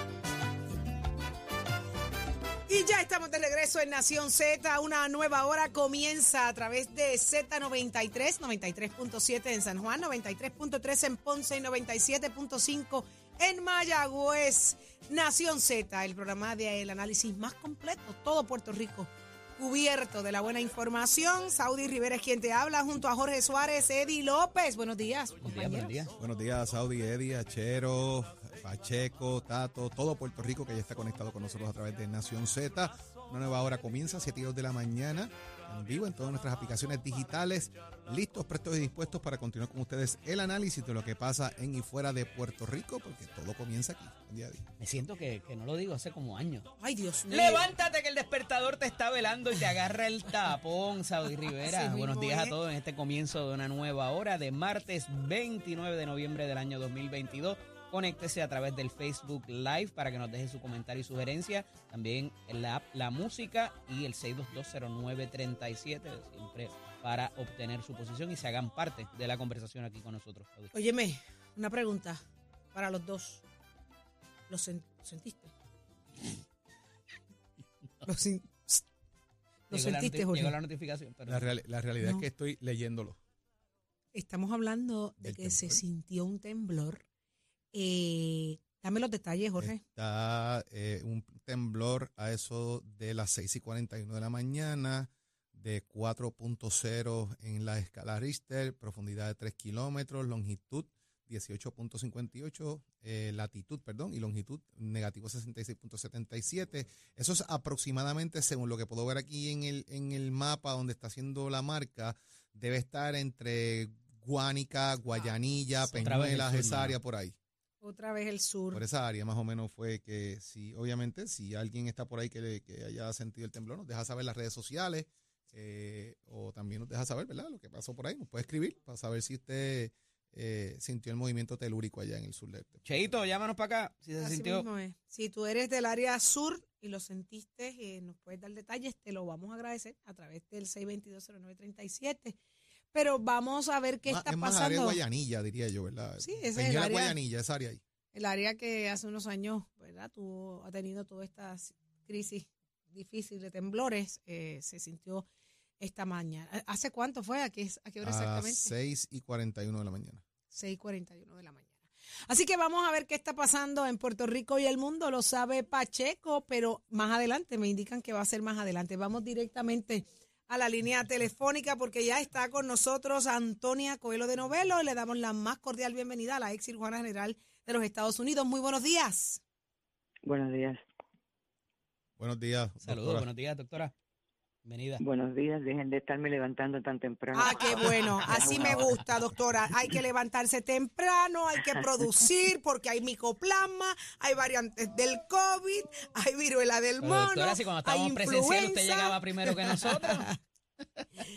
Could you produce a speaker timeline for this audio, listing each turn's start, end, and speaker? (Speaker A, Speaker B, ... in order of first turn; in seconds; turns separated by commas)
Speaker A: 2.7-26.0, Speaker B: 25.4-26.1, Speaker C: 26.2-44.6, Speaker B: 44.8-46.7, Speaker A: 46.8-47.7, Speaker B: 47.3-70.7, Speaker A: 51.5-52.5, Speaker A: 70.7-72.2, Speaker A: 72.7-73.4, Speaker A: 74.5-75.5, Speaker A: 78.0-78.8, Speaker A: 79.7-80.6, Speaker B: 79.7-81.5, Speaker C: 81.3-83.2, Speaker A: 84.1-87.0, Speaker C: 85.2-85.8, Speaker A: 87.7-89.8, Speaker C: 89.6-117.3, Speaker B: 115.9-117.0, Speaker A: 117.8-118.8, Speaker C: 118.7-132.8, Speaker B: 132.8-134.7, Speaker A: 134.2-142.4, Speaker A: 142.9-145.0, Speaker C: 144.1-147.8, Speaker A: 146.2-147.2, Speaker A: 148.1-155.3, Speaker A: 155.8-158.7, Speaker C: 158.0-160.2, Speaker A: 160.5-179.4, Speaker D: 180.2-180.8, Speaker C: 182.2-183.3, Speaker B: 182.8-183.9, Speaker B: 184.7-185.0, Speaker D: 185.0-188.9, Speaker A: 187.3-200.4, Speaker B: 197.0-200.3